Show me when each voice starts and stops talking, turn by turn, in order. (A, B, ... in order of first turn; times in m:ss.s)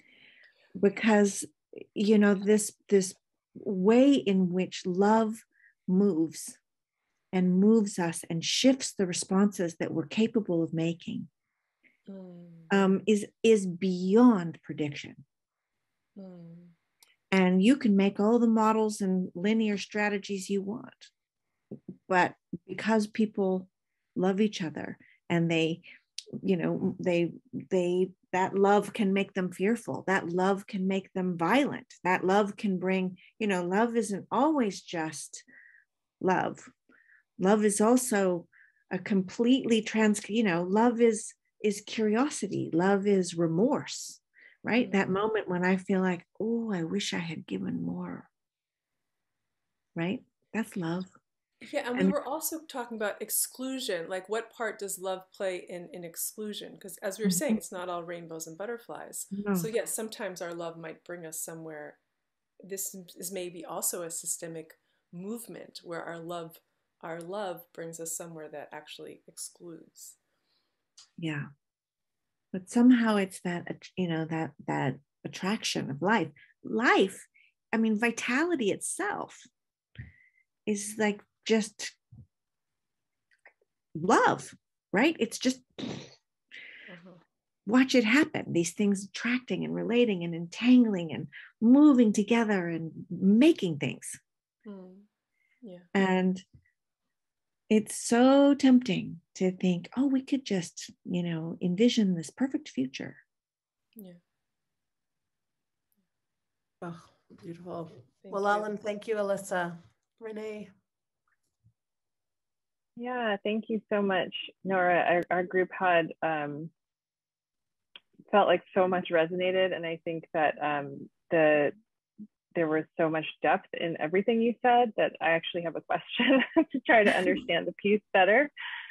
0:00.8-0:06.6 A
0:07.3-0:11.3 A
0:12.1-0:13.0 B
0:12.7-0:15.2 A
0:16.2-0:16.7 B
0:17.3-0:21.1 A
0:22.1-0:25.8 A
0:26.4-0:35.4 A
0:36.2-0:36.7 A
0:37.4-0:48.3 A
0:44.8-0:45.1 B
0:50.0-0:51.1 A
0:51.6-1:02.0 B
0:57.2-0:57.6 A
0:59.3-0:59.7 A
1:02.6-1:10.2 B
1:11.2-1:11.5 A
1:12.5-1:19.5 A
1:20.7-1:22.0 A
1:23.9-1:26.1 A
1:26.9-1:27.2 B
1:27.6-1:34.2 A
1:34.6-1:35.1 B
1:35.6-1:35.9 B
1:35.9-1:36.4 A
1:37.7-1:43.2 A
1:46.8-1:50.7 C
1:48.2-1:48.7 B
1:53.0-1:56.7 D
1:58.3-2:01.8 D
2:02.5-2:08.5 D